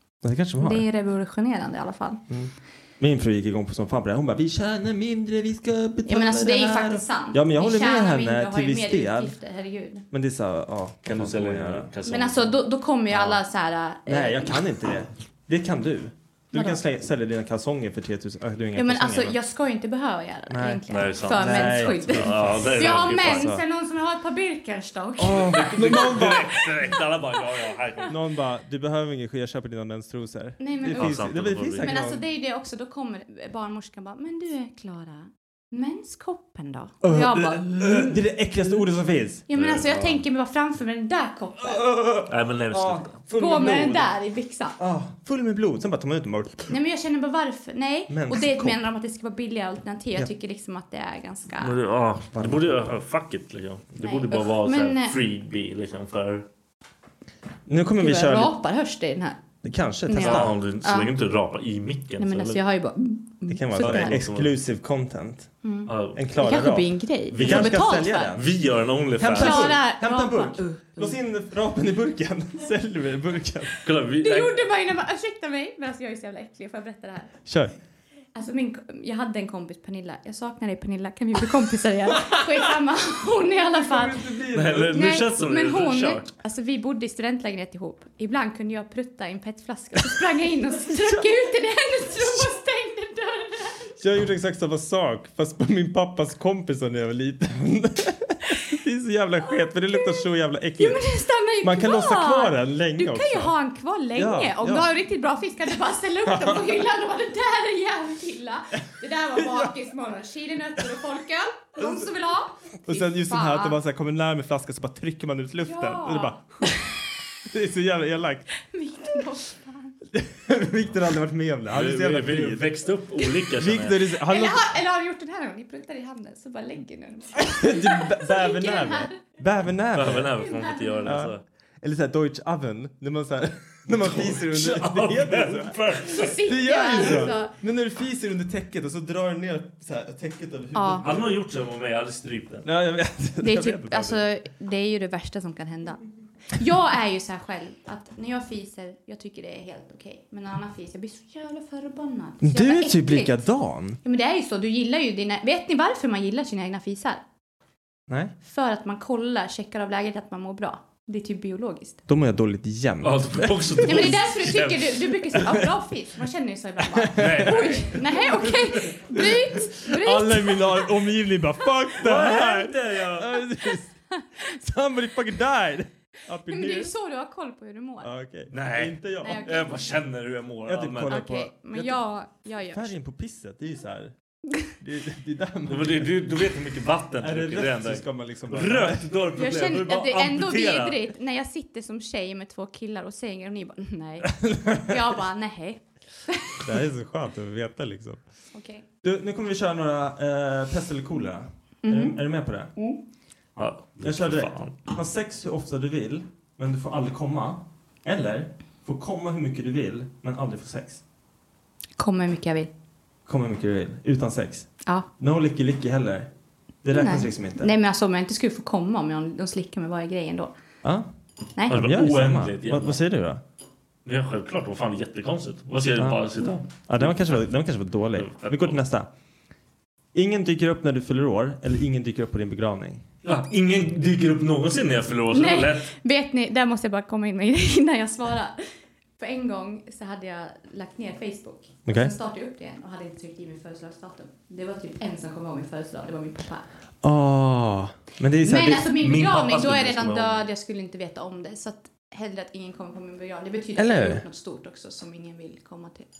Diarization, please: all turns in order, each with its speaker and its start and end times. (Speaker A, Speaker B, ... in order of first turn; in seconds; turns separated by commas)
Speaker A: 0.2-0.8, Speaker B: 0.6-2.2, Speaker A: 2.3-9.3, Speaker B: 6.0-10.0, Speaker A: 10.1-11.9, Speaker C: 11.0-13.4, Speaker B: 12.1-14.6, Speaker A: 14.1-19.4, Speaker B: 16.5-16.8, Speaker B: 18.8-26.3, Speaker A: 20.5-23.6, Speaker C: 20.9-23.5, Speaker A: 25.2-26.6, Speaker C: 25.4-28.1, Speaker A: 28.1-32.2, Speaker B: 30.6-31.2, Speaker C: 30.9-31.9, Speaker B: 31.8-38.2, Speaker A: 37.0-39.5, Speaker B: 39.5-41.9, Speaker C: 39.5-40.2, Speaker A: 41.6-44.1, Speaker C: 42.3-43.2, Speaker B: 43.3-44.8, Speaker A: 44.8-46.7, Speaker B: 46.7-51.7, Speaker A: 48.1-48.8, Speaker C: 51.6-56.5, Speaker A: 52.3-52.9, Speaker B: 54.0-55.2, Speaker A: 57.6-58.5, Speaker B: 58.0-59.4, Speaker A: 59.6-60.5, Speaker B: 60.1-61.1, Speaker C: 60.1-62.6, Speaker B: 62.2-64.2, Speaker A: 63.5-65.5, Speaker C: 63.8-64.5, Speaker B: 65.6-68.3, Speaker C: 65.9-66.2, Speaker A: 66.1-68.5, Speaker C: 67.3-69.8, Speaker A: 69.2-73.8, Speaker B: 69.3-71.1, Speaker C: 73.8-74.6, Speaker B: 74.2-77.3, Speaker A: 77.5-77.7, Speaker B: 78.3-84.2, Speaker A: 82.3-82.6, Speaker A: 83.7-85.1, Speaker C: 84.5-86.3, Speaker B: 84.9-94.0, Speaker A: 94.0-101.0, Speaker B: 99.9-100.2, Speaker B: 100.8-113.8, Speaker A: 101.6-103.5, Speaker A: 104.2-104.9, Speaker A: 106.2-106.8, Speaker A: 109.3-109.7, Speaker A: 111.8-112.1, Speaker A: 112.8-116.9, Speaker B: 115.6-116.4, Speaker A: 117.4-118.5, Speaker B: 118.6-120.0, Speaker A: 120.1-122.7, Speaker C: 121.7-124.0, Speaker A: 123.5-124.7, Speaker B: 124.2-129.2, Speaker A: 127.3-130.4, Speaker C: 129.9-131.4, Speaker B: 130.4-131.2, Speaker A: 131.0-141.3, Speaker C: 133.9-136.4, Speaker B: 136.1-137.5, Speaker C: 136.9-137.2, Speaker B: 140.7-141.0, Speaker C: 141.0-142.7, Speaker A: 142.6-144.2, Speaker B: 143.4-153.3, Speaker A: 152.4-154.0, Speaker B: 154.0-157.2, Speaker A: 158.1-158.3, Speaker B: 158.4-162.0, Speaker A: 162.1-164.3, Speaker C: 163.0-165.4, Speaker B: 163.8-170.9, Speaker A: 166.9-176.9, Speaker C: 167.2-168.1, Speaker C: 172.0-173.4, Speaker B: 176.5-178.1, Speaker A: 178.0-179.5, Speaker C: 178.5-181.2, Speaker B: 179.2-179.8, Speaker A: 180.6-182.0, Speaker B: 181.1-182.9, Speaker A: 182.6-184.1, Speaker A: 184.8-186.3, Speaker C: 185.7-191.0, Speaker A: 187.2-189.1, Speaker B: 189.3-196.7, Speaker A: 194.4-195.0, Speaker A: 196.6-198.2, Speaker B: 198.5-198.8, Speaker A: 199.0-202.7, Speaker B: 201.8-202.2, Speaker C: 203.6-204.8, Speaker A: 204.0-211.0, Speaker B: 212.0-212.7, Speaker A: 213.2-216.3, Speaker A: 216.8-217.7, Speaker B: 216.9-220.5, Speaker A: 220.8-221.1, Speaker A: 221.7-223.4, Speaker C: 221.7-223.0, Speaker C: 224.1-227.4, Speaker A: 226.0-229.1, Speaker C: 228.2-228.8, Speaker A: 230.1-233.1, Speaker C: 233.2-235.9, Speaker B: 235.3-238.6, Speaker B: 239.2-246.6, Speaker A: 241.8-242.1, Speaker A: 247.0-248.9, Speaker B: 248.4-256.1, Speaker C: 248.9-250.5, Speaker A: 253.8-254.2